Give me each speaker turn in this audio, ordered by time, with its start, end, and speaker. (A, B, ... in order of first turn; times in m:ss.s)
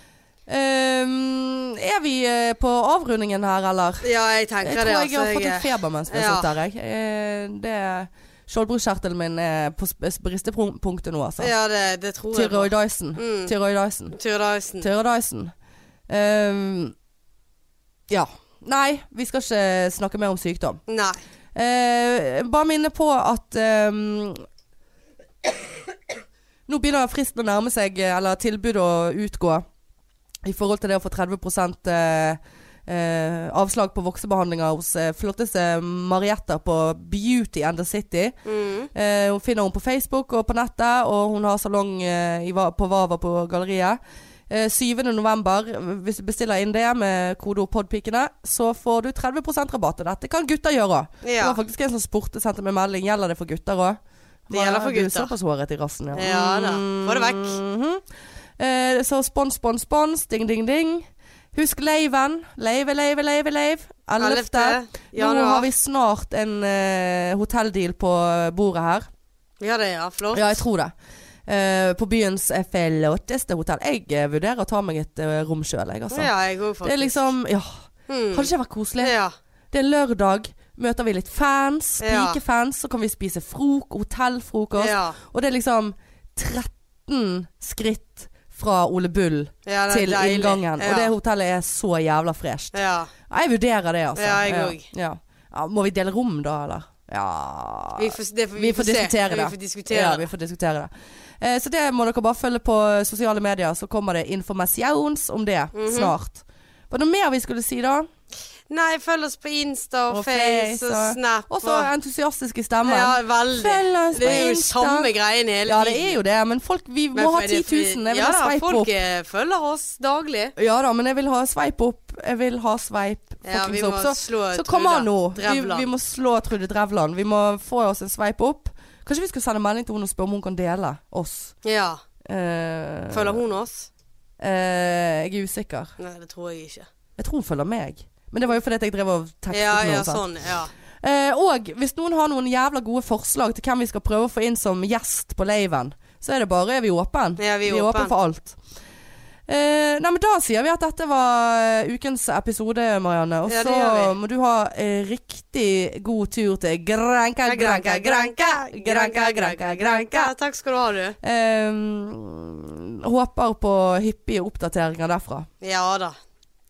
0:00.5-0:04.0 A
0:04.0-0:06.5 B
0:04.6-0:11.5 A
0:11.4-0:13.5 B
0:12.3-0:14.2 A
0:14.1-0:14.9 B
0:14.8-0:15.5 A
0:16.1-0:16.9 A
0:18.1-0:20.8 A
0:20.9-0:21.2 B
0:21.6-0:24.4 A
0:26.7-0:29.6 A
0:30.4-0:38.4 A
0:38.4-0:38.9 B
0:38.9-0:58.0 A
0:51.2-0:51.6 B
0:54.5-0:55.3 B
0:56.1-0:57.6 B
0:58.6-1:09.1 A
1:04.2-1:05.7 B
1:09.6-1:10.6 B
1:10.3-1:10.9 A
1:11.5-1:16.3 A
1:16.1-1:17.3 B
1:16.8-1:19.2 A
1:18.1-1:19.3 B
1:19.7-1:48.1 A
1:22.0-1:22.4 B
1:24.8-1:25.2 B
1:29.6-1:31.1 B
1:32.7-1:33.1 B
1:34.1-1:34.9 B
1:38.0-1:40.3 B
1:45.7-1:46.1 B
1:48.7-1:51.9 B
1:50.1-1:55.1 A
1:52.8-1:56.2 B
1:55.6-1:58.9 A
1:57.1-2:00.5 B
2:00.6-2:11.6 A
2:03.4-2:05.9 B
2:11.6-2:12.0 B
2:12.2-2:13.4 A
2:13.1-2:13.9 B
2:14.4-2:15.9 A
2:16.0-2:16.9 B
2:17.2-2:20.3 A
2:19.5-2:20.7 B
2:21.0-2:28.6 A
2:27.4-2:28.1 B
2:29.5-2:40.3 A
2:33.5-2:34.2 B
2:37.4-2:41.2 B
2:41.2-2:45.5 A
2:45.6-2:46.1 B